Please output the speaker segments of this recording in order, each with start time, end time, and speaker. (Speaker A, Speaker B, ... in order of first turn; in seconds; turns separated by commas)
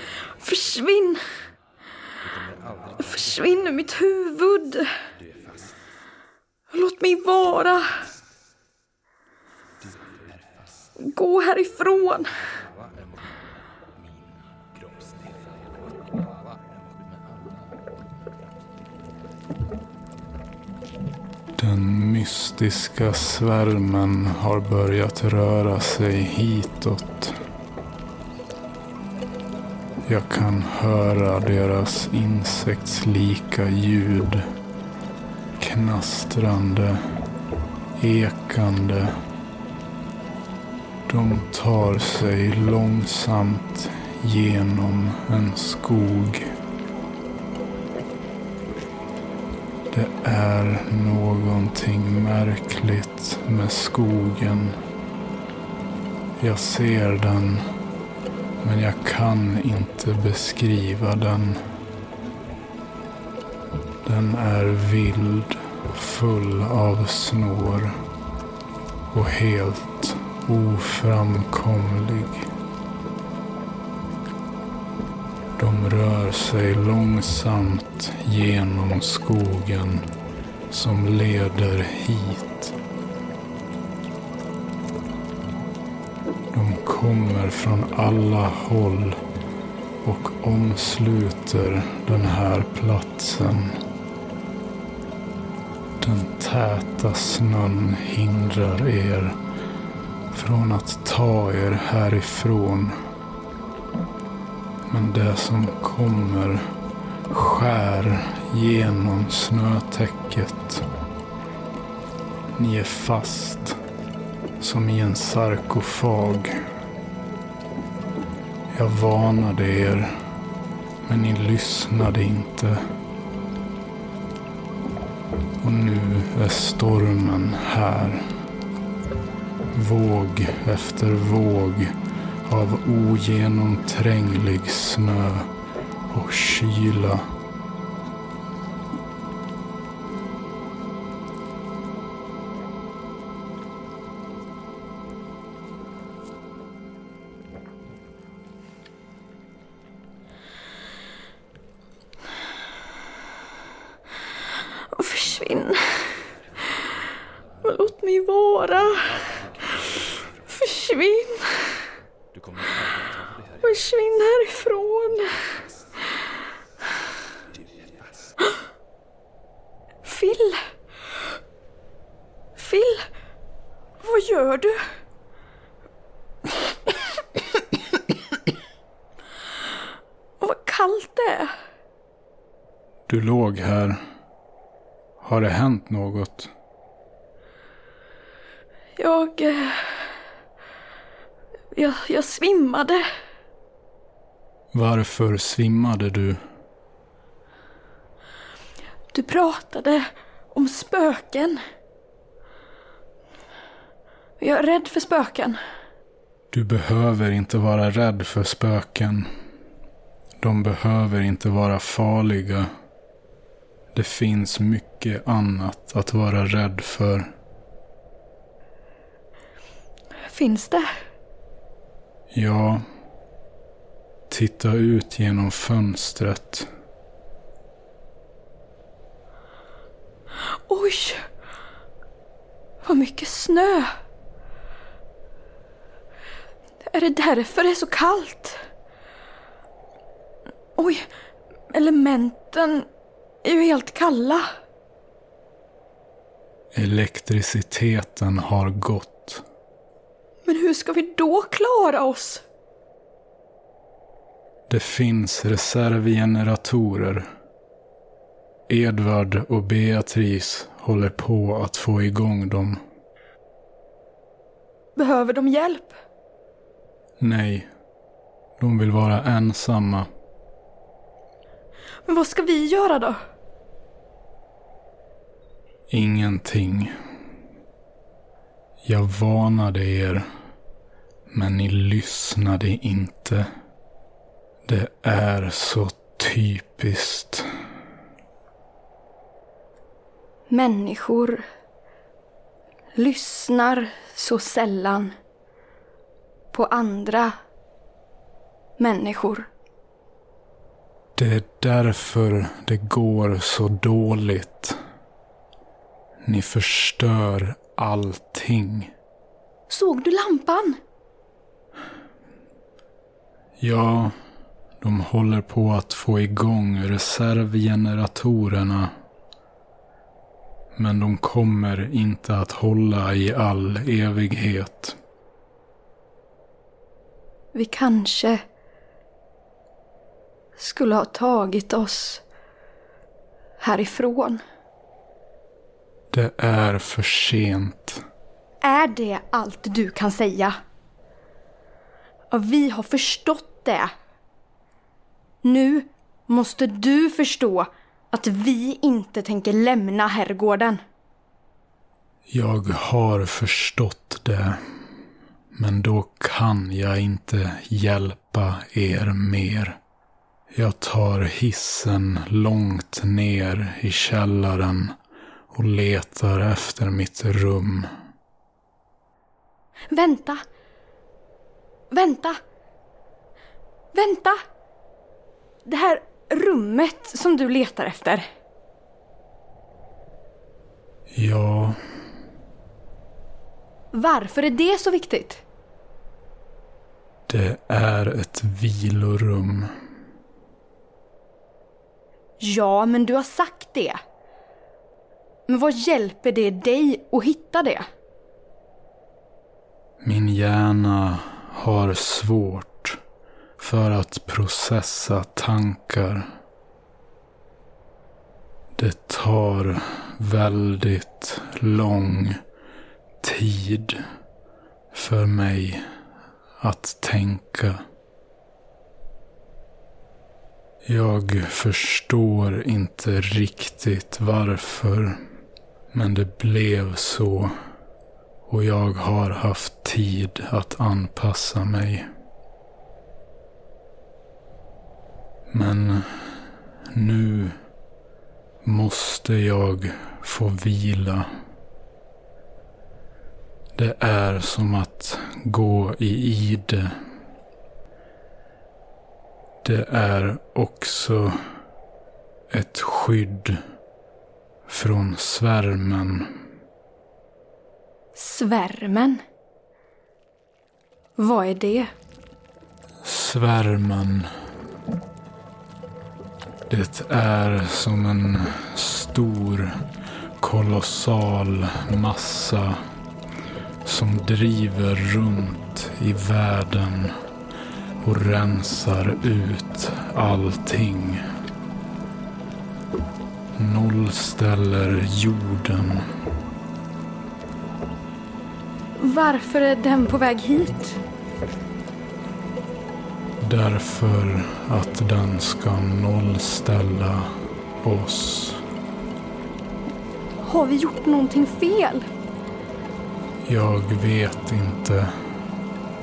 Speaker A: 0.4-1.2, Speaker A: 3.0-4.9, Speaker A: 6.7-8.0, Speaker A: 11.0-12.3, Speaker B: 21.6-27.3, Speaker B: 30.1-34.4, Speaker B: 35.6-37.0, Speaker B: 38.0-39.1, Speaker B: 41.1-46.5, Speaker B: 49.9-54.8, Speaker B: 56.4-57.6, Speaker B: 58.6-61.6, Speaker B: 64.0-67.9, Speaker B: 69.1-72.5, Speaker B: 75.6-80.0, Speaker B: 80.7-82.7, Speaker B: 86.5-89.2, Speaker B: 90.0-93.8, Speaker B: 96.0-99.4, Speaker B: 100.3-102.9, Speaker B: 104.9-106.6, Speaker B: 107.3-110.8, Speaker B: 112.5-113.8, Speaker B: 114.6-116.6, Speaker B: 118.7-120.2, Speaker B: 121.0-122.8, Speaker B: 125.6-128.2, Speaker B: 129.7-135.5, Speaker B: 136.1-137.2, Speaker A: 154.9-156.1, Speaker A: 157.6-159.2, Speaker A: 160.5-161.8, Speaker A: 163.6-165.4, Speaker A: 170.0-170.6, Speaker A: 172.6-173.1, Speaker A: 174.0-174.8, Speaker A: 180.4-181.5, Speaker B: 183.1-184.0, Speaker B: 185.2-186.5, Speaker A: 189.0-190.0, Speaker A: 191.7-193.0, Speaker B: 194.7-196.4, Speaker A: 199.1-201.6, Speaker A: 204.4-205.6, Speaker B: 206.5-209.3, Speaker B: 210.4-212.7, Speaker B: 213.9-217.3, Speaker A: 220.3-220.9, Speaker B: 222.3-222.8, Speaker B: 224.3-226.7, Speaker A: 230.7-231.2, Speaker A: 232.8-233.9, Speaker A: 236.8-238.6, Speaker A: 240.8-241.0, Speaker A: 241.7-242.8, Speaker A: 243.4-244.4, Speaker B: 246.7-249.4, Speaker A: 250.4-252.4, Speaker B: 254.7-257.2, Speaker B: 258.7-262.8, Speaker A: 264.9-265.9, Speaker B: 267.2-267.7, Speaker B: 268.6-270.1, Speaker A: 272.1-273.2, Speaker B: 275.9-276.9, Speaker B: 278.8-280.2, Speaker B: 281.3-283.5, Speaker B: 284.6-287.5, Speaker A: 290.5-291.4, Speaker A: 293.0-295.1, Speaker A: 296.5-297.3, Speaker A: 298.8-299.5, Speaker B: 301.1-304.8, Speaker B: 306.2-308.9, Speaker A: 309.7-310.8, Speaker B: 313.6-314.1, Speaker B: 314.8-318.9, Speaker B: 320.7-325.0, Speaker A: 327.5-328.4, Speaker A: 330.6-332.2, Speaker A: 333.6-334.4, Speaker B: 336.1-338.0, Speaker A: 338.6-340.5, Speaker A: 342.3-343.9, Speaker A: 345.4-350.8, Speaker B: 352.3-354.6, Speaker B: 355.5-359.8, Speaker B: 360.5-364.9, Speaker B: 365.5-367.9, Speaker A: 369.9-370.4, Speaker A: 371.9-372.4, Speaker A: 373.9-374.4, Speaker A: 375.6-378.2, Speaker B: 381.1-381.8, Speaker A: 383.9-385.4, Speaker B: 387.3-389.7, Speaker A: 392.4-394.0, Speaker A: 395.5-397.8, Speaker B: 400.0-403.0, Speaker B: 403.6-406.2, Speaker B: 408.8-412.4, Speaker B: 413.2-414.0, Speaker B: 414.9-415.8, Speaker B: 416.6-417.8, Speaker B: 420.8-425.2, Speaker B: 425.9-427.5, Speaker B: 428.5-432.1, Speaker B: 435.5-437.5, Speaker B: 438.6-441.3, Speaker B: 443.7-446.9, Speaker B: 449.6-451.3, Speaker B: 452.5-453.6, Speaker B: 454.7-456.4, Speaker A: 458.1-459.2, Speaker A: 461.2-461.9, Speaker B: 463.0-464.3, Speaker B: 466.7-469.7, Speaker B: 470.4-472.8, Speaker B: 473.8-477.1, Speaker B: 478.0-481.2, Speaker B: 483.6-486.0, Speaker A: 489.0-491.0, Speaker B: 493.4-497.3, Speaker B: 497.8-498.6, Speaker A: 500.4-502.1, Speaker B: 503.4-505.1